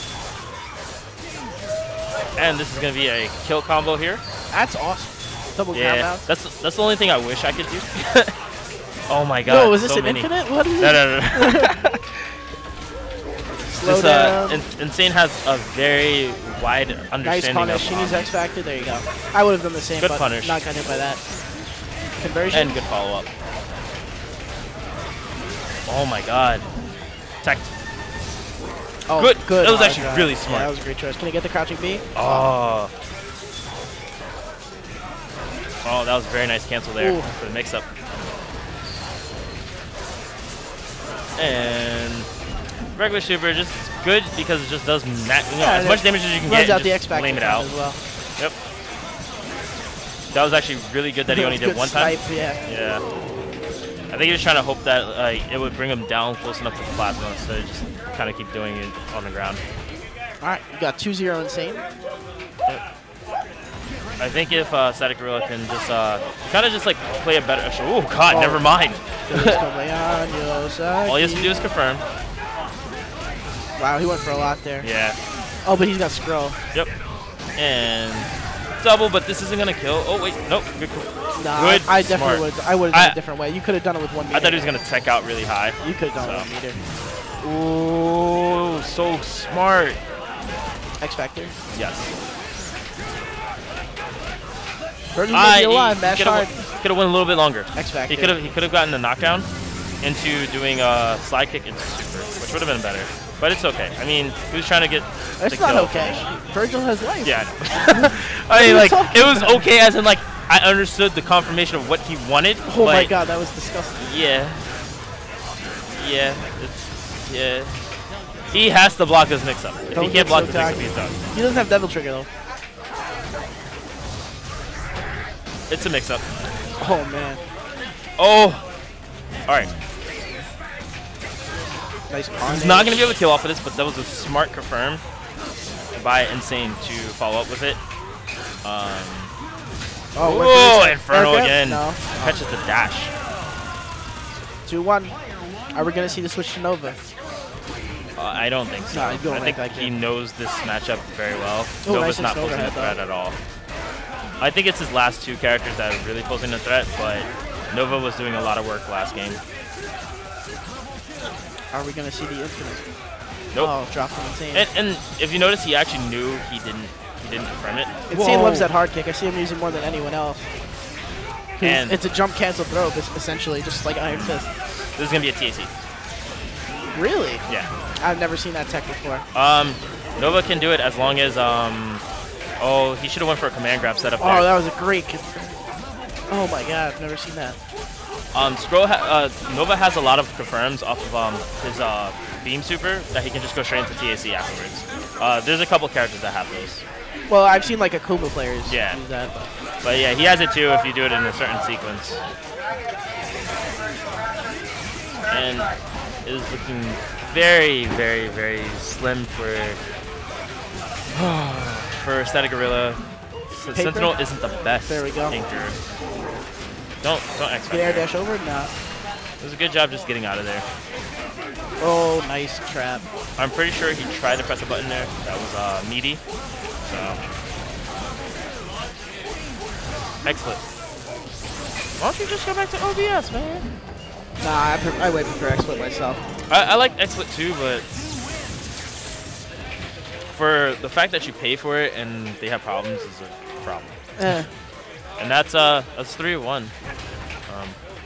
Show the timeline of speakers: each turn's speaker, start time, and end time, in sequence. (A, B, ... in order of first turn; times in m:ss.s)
0:02.4-0:04.2 A
0:04.5-0:06.3 B
0:05.7-0:08.3 A
0:09.1-0:11.7 A
0:09.4-0:12.0 B
0:13.7-0:18.3 A
0:13.7-0:14.6 B
0:17.2-0:21.2 B
0:20.0-0:20.6 A
0:22.2-0:22.8 B
0:22.5-0:23.3 A
0:25.9-0:26.6 A
0:27.4-0:27.7 A
0:29.1-0:32.4 B
0:29.2-0:30.7 A
0:32.1-0:32.9 A
0:35.8-0:37.8 A
0:37.0-0:37.3 B
0:41.4-0:42.3 A
0:42.9-0:47.7 A
0:45.6-0:48.0 B
0:50.3-0:53.0 A
0:51.3-0:52.6 B
0:54.1-0:59.6 A
1:00.4-1:01.8 B
1:04.2-1:09.6 A
1:08.3-1:08.7 B
1:09.3-1:11.6 B
1:11.0-1:12.0 A
1:13.8-1:14.8 B
1:14.8-1:15.2 A
1:15.6-1:16.6 B
1:17.6-1:23.2 A
1:21.4-1:24.7 B
1:24.3-1:26.5 A
1:25.8-1:26.8 B
1:27.4-1:30.0 A
1:31.0-1:31.5 B
1:31.7-1:32.1 A
1:35.1-1:36.5 B
1:35.3-1:39.5 A
1:37.7-1:38.4 B
1:40.0-1:46.3 A
1:45.4-1:47.3 B
1:47.2-1:53.1 A
1:48.5-1:49.6 B
1:52.6-1:54.1 B
1:54.0-1:54.6 A
1:56.0-1:57.7 A
1:58.5-2:01.1 A
1:59.9-2:02.3 B
2:05.7-2:06.2 A
2:06.8-2:07.4 B
2:08.2-2:08.6 A
2:12.1-2:13.0 B
2:12.4-2:15.0 A
2:15.9-2:17.8 A
2:18.6-2:19.3 A
2:20.1-2:22.4 B
2:20.2-2:23.1 A
2:24.6-2:25.2 B
2:25.7-2:27.0 B
2:28.2-2:33.4 A
2:28.9-2:29.9 B
2:31.8-2:33.0 B
2:34.4-2:39.4 A
2:41.7-2:42.8 B
2:43.6-2:44.7 B
2:44.5-2:48.7 A
2:48.1-2:50.5 B
2:51.6-2:54.5 B
2:51.6-2:52.0 A
2:54.1-2:54.4 A
2:55.0-2:55.7 A
2:56.9-2:57.4 B
2:58.0-2:59.2 B
2:59.3-3:02.0 A
3:02.6-3:04.5 A
3:04.2-3:05.5 B
3:06.3-3:07.6 B
3:08.3-3:16.8 A
3:17.3-3:19.4 B
3:18.7-3:19.0 A
3:19.8-3:22.2 A
3:25.3-3:25.7 A
3:26.2-3:29.8 A
3:31.1-3:35.8 A
3:33.7-3:34.2 B
3:34.9-3:35.4 B
3:37.0-3:38.1 A
3:37.7-3:38.7 B
3:39.4-3:40.6 A
3:41.8-3:43.0 B
3:43.4-3:46.2 A
3:46.9-3:47.2 A
3:50.2-3:50.6 A
3:52.0-3:53.7 A
3:54.4-3:56.2 B
3:56.5-3:57.9 A
4:00.3-4:04.0 A
4:04.2-4:04.5 B
4:05.2-4:06.7 A
4:07.5-4:07.8 A